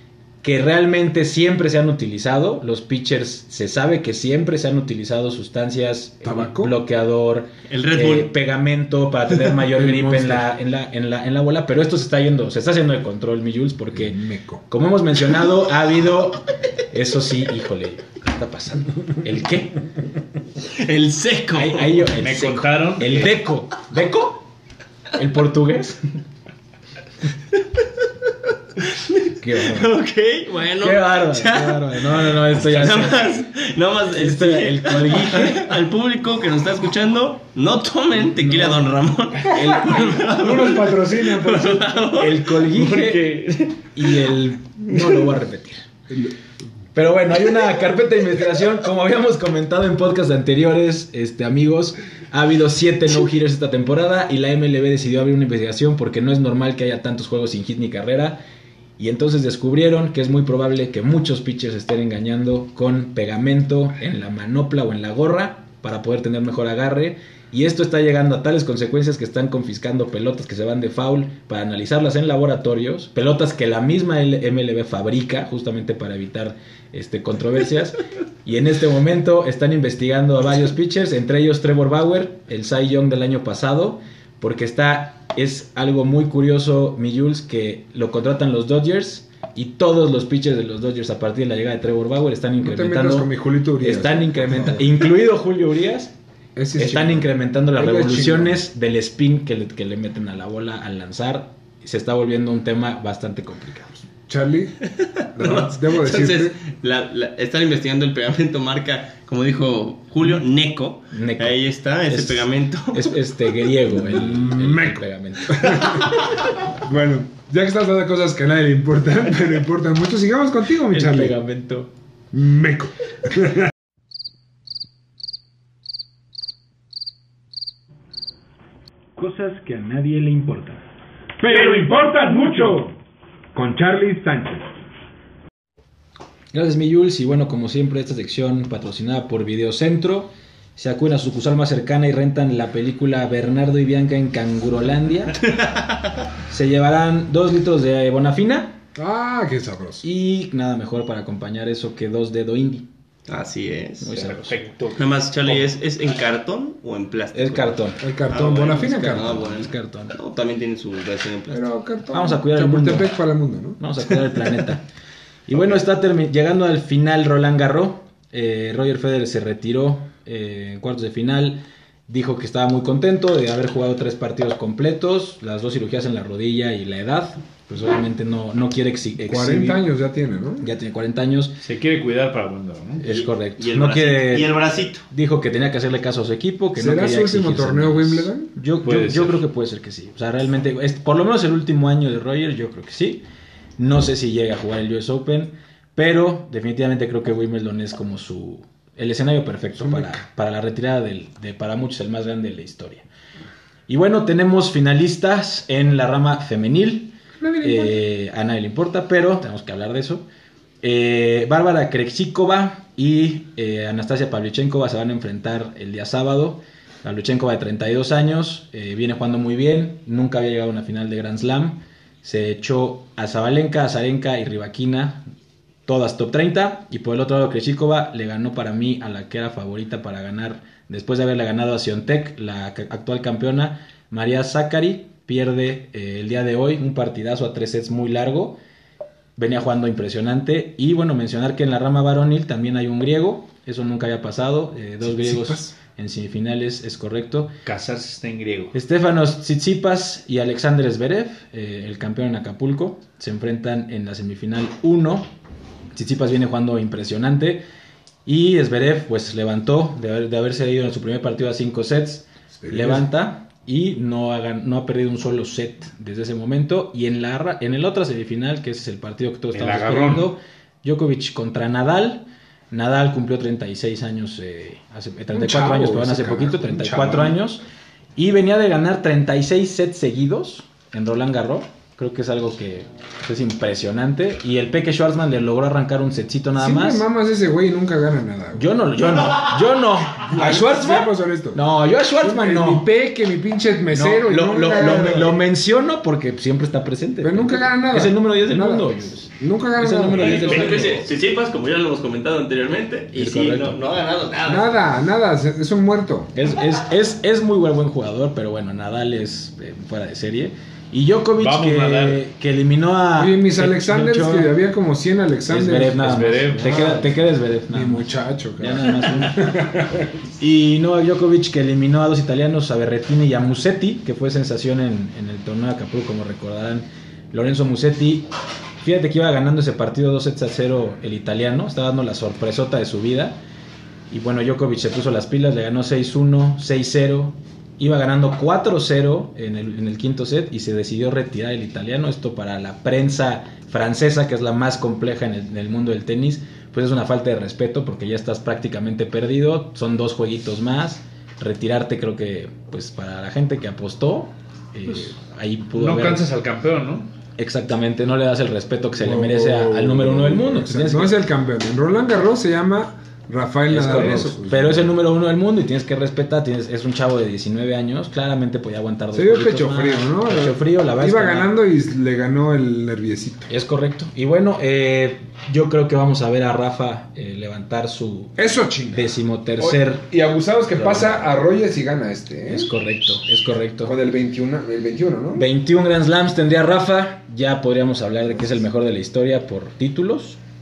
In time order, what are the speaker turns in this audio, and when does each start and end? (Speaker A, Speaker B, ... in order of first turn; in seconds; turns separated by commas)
Speaker A: 0.4-19.8, Speaker B: 6.2-6.7, Speaker C: 7.7-8.3, Speaker B: 9.8-10.4, Speaker B: 13.9-14.6, Speaker C: 20.7-22.1, Speaker A: 21.5-24.5, Speaker D: 22.2-23.4, Speaker A: 25.1-26.0, Speaker C: 28.8-44.3, Speaker A: 29.4-29.9, Speaker A: 30.8-33.5, Speaker A: 34.1-35.7, Speaker B: 38.4-38.8, Speaker A: 39.5-40.2, Speaker B: 39.6-42.0, Speaker A: 42.1-43.2, Speaker A: 44.0-45.9, Speaker C: 44.9-45.3, Speaker A: 47.0-58.4, Speaker A: 59.0-96.1, Speaker B: 92.6-95.0, Speaker B: 96.6-98.6, Speaker A: 96.8-104.1, Speaker B: 104.3-104.8, Speaker C: 105.0-113.1, Speaker B: 105.3-106.6, Speaker A: 111.1-111.6, Speaker A: 112.1-116.1, Speaker B: 113.8-116.2, Speaker B: 116.7-121.4, Speaker A: 120.9-121.9, Speaker B: 122.3-123.7, Speaker A: 129.2-130.8, Speaker B: 131.4-132.7, Speaker A: 131.5-132.8, Speaker A: 133.6-134.6, Speaker A: 136.5-145.4, Speaker C: 145.5-146.1, Speaker A: 146.5-148.8, Speaker B: 148.9-150.0, Speaker A: 150.0-152.9, Speaker C: 153.3-154.4, Speaker A: 154.0-154.6, Speaker D: 154.2-155.6, Speaker C: 154.9-161.7, Speaker A: 157.3-158.0, Speaker B: 158.0-159.6, Speaker A: 159.1-160.2, Speaker B: 161.5-163.8, Speaker A: 162.1-163.1, Speaker A: 163.8-164.8, Speaker A: 165.5-179.8, Speaker B: 179.2-180.7, Speaker A: 180.6-181.6, Speaker D: 181.6-183.1, Speaker A: 183.0-184.6, Speaker C: 183.1-185.1, Speaker A: 185.1-193.2, Speaker B: 186.8-188.5, Speaker D: 188.8-189.4, Speaker A: 193.8-203.1, Speaker B: 199.8-200.2, Speaker A: 203.9-210.2, Speaker B: 207.4-208.0, Speaker A: 210.8-225.2, Speaker A: 225.9-238.6, Speaker A: 239.4-247.6, Speaker B: 245.0-245.8, Speaker D: 247.6-248.7, Speaker A: 248.7-255.3, Speaker A: 255.9-257.6, Speaker A: 258.2-277.6, Speaker B: 262.6-263.1, Speaker D: 269.5-270.3, Speaker B: 275.3-277.4, Speaker A: 278.2-287.0, Speaker B: 286.6-288.8, Speaker A: 288.6-292.9, Speaker B: 290.3-291.6, Speaker B: 292.2-295.4, Speaker A: 293.9-301.1, Speaker B: 297.2-301.0, Speaker C: 300.1-304.8, Speaker A: 303.1-303.8, Speaker B: 304.5-306.3, Speaker A: 306.3-314.6, Speaker D: 311.4-312.2, Speaker B: 313.2-316.0, Speaker A: 315.5-319.5, Speaker D: 315.9-317.1, Speaker B: 317.7-320.2, Speaker A: 320.4-328.3, Speaker A: 328.8-333.4, Speaker A: 334.1-356.3, Speaker D: 355.8-357.1, Speaker A: 357.4-361.2, Speaker B: 359.0-364.9, Speaker A: 363.7-371.5, Speaker B: 369.1-373.5, Speaker A: 373.5-378.4, Speaker B: 378.4-382.7, Speaker A: 378.9-380.1, Speaker A: 380.7-381.4, Speaker A: 382.5-383.9, Speaker B: 383.9-385.5, Speaker A: 385.4-390.4